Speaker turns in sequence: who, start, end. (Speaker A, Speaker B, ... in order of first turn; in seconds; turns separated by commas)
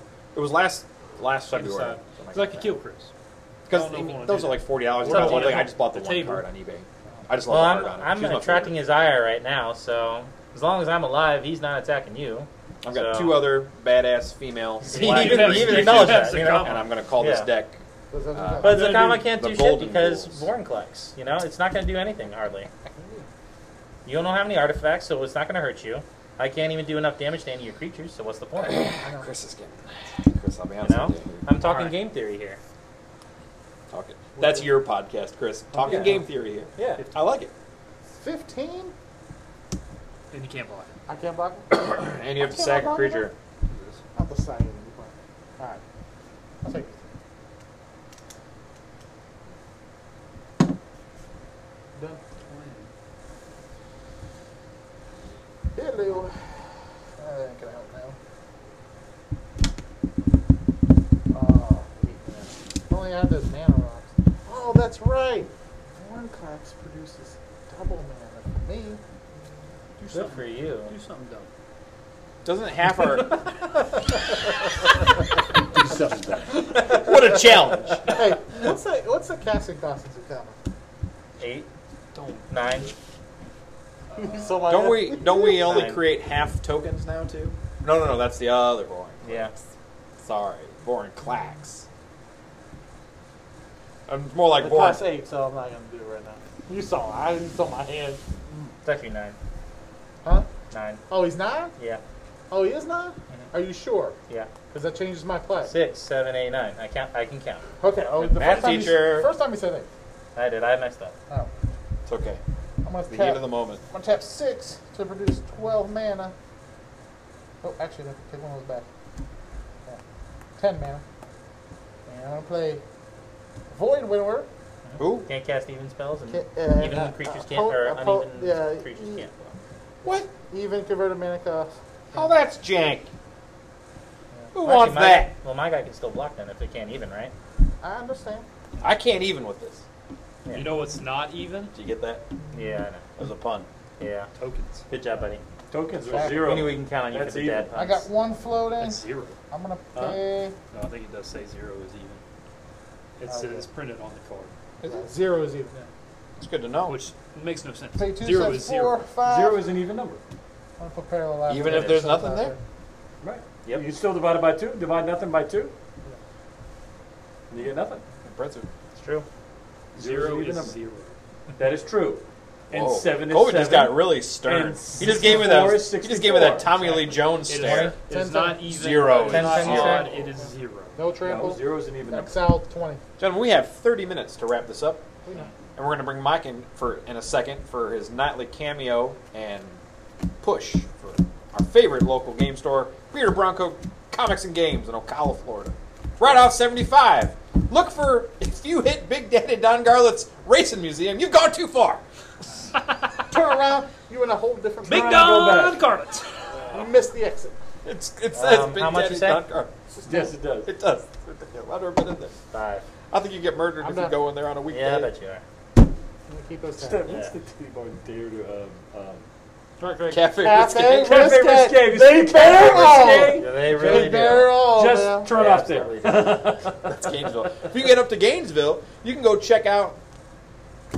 Speaker A: 0.3-2.8, Speaker B: 1.5-3.1, Speaker A: 3.7-8.8, Speaker B: 3.7-6.4, Speaker C: 7.5-13.5, Speaker A: 12.8-17.8, Speaker C: 14.9-17.5, Speaker B: 14.9-16.9, Speaker D: 18.1-19.0, Speaker A: 18.3-20.5, Speaker C: 18.6-22.7, Speaker D: 22.9-23.3, Speaker C: 24.1-28.9, Speaker A: 28.6-31.5, Speaker D: 29.0-29.3, Speaker C: 30.8-32.6, Speaker B: 31.6-31.9, Speaker A: 33.9-37.5, Speaker D: 34.4-34.8, Speaker D: 35.8-36.1, Speaker C: 35.8-36.2, Speaker C: 36.8-37.0, Speaker D: 38.2-38.9, Speaker B: 40.3-40.9, Speaker D: 41.1-43.3, Speaker A: 41.7-43.3, Speaker B: 43.7-44.0, Speaker D: 44.1-45.8, Speaker D: 46.6-47.1, Speaker D: 52.0-52.2, Speaker B: 52.4-52.9, Speaker D: 55.7-56.7, Speaker D: 57.2-58.2, Speaker D: 61.3-69.0, Speaker B: 70.0-71.5, Speaker C: 70.1-70.9, Speaker A: 72.4-73.3, Speaker E: 75.7-76.9, Speaker A: 76.8-78.2, Speaker D: 78.1-80.5, Speaker C: 81.4-81.7, Speaker B: 82.1-82.8, Speaker C: 82.5-82.9, Speaker D: 84.1-85.8, Speaker A: 84.7-89.6, Speaker C: 85.6-86.0, Speaker C: 89.2-89.5, Speaker A: 90.2-91.8, Speaker A: 94.1-95.0, Speaker D: 94.5-98.7, Speaker C: 98.8-99.3, Speaker C: 100.7-101.0, Speaker D: 101.1-101.7, Speaker C: 101.8-102.0, Speaker D: 102.5-104.2, Speaker D: 104.7-105.7, Speaker C: 105.6-107.7, Speaker D: 107.8-109.9, Speaker A: 108.2-109.3, Speaker C: 108.4-108.6, Speaker C: 110.3-111.1, Speaker A: 112.0-112.4, Speaker D: 112.8-116.3, Speaker A: 113.1-113.8, Speaker D: 117.6-118.8, Speaker D: 120.6-121.0, Speaker D: 122.0-122.8, Speaker D: 123.7-124.5, Speaker C: 124.9-129.5, Speaker A: 125.0-125.3, Speaker D: 126.3-129.2, Speaker D: 130.0-132.3, Speaker A: 132.1-133.1, Speaker A: 134.5-135.3, Speaker C: 134.6-137.3, Speaker D: 137.8-138.4, Speaker A: 138.8-139.8, Speaker C: 140.4-140.7, Speaker B: 140.5-141.7, Speaker A: 141.7-142.2, Speaker C: 142.5-143.0, Speaker A: 143.2-143.7, Speaker C: 144.0-144.3, Speaker B: 144.4-144.8, Speaker C: 144.9-145.4, Speaker E: 145.7-147.7, Speaker D: 146.0-146.7, Speaker C: 146.3-148.0, Speaker D: 147.7-150.5, Speaker B: 148.8-149.4, Speaker B: 150.7-152.2, Speaker B: 153.2-154.5, Speaker D: 153.3-153.7, Speaker A: 154.8-155.1, Speaker D: 154.8-155.9, Speaker A: 156.4-157.0, Speaker B: 156.8-159.0, Speaker D: 158.0-159.8, Speaker E: 159.2-160.2, Speaker D: 160.8-162.6, Speaker A: 161.5-162.5, Speaker E: 163.2-165.7, Speaker E: 167.5-168.0, Speaker A: 168.2-168.7, Speaker C: 168.9-169.2, Speaker B: 169.9-171.1, Speaker E: 169.9-170.8, Speaker E: 171.6-177.0, Speaker A: 172.7-177.9, Speaker B: 176.9-181.0, Speaker C: 177.5-177.9, Speaker D: 178.1-183.0, Speaker A: 178.7-180.1, Speaker C: 179.3-180.1, Speaker E: 181.2-182.3, Speaker A: 183.2-185.0, Speaker D: 185.2-185.5, Speaker A: 185.7-189.8, Speaker A: 190.4-202.0, Speaker D: 203.3-205.3, Speaker B: 204.8-206.8, Speaker E: 204.9-205.8, Speaker D: 206.6-207.6, Speaker A: 207.8-209.7, Speaker C: 208.3-209.4, Speaker D: 209.9-210.4, Speaker E: 210.1-210.7, Speaker A: 210.6-212.3, Speaker C: 212.5-212.8, Speaker A: 213.1-215.1, Speaker D: 213.8-214.2, Speaker C: 214.7-215.4, Speaker D: 216.3-217.1, Speaker E: 216.8-219.2, Speaker C: 217.1-217.3, Speaker B: 219.8-220.2, Speaker A: 220.1-221.3, Speaker D: 220.3-225.3, Speaker E: 220.9-226.9, Speaker A: 222.5-223.2, Speaker C: 223.3-224.6, Speaker C: 225.2-226.5, Speaker A: 226.9-230.0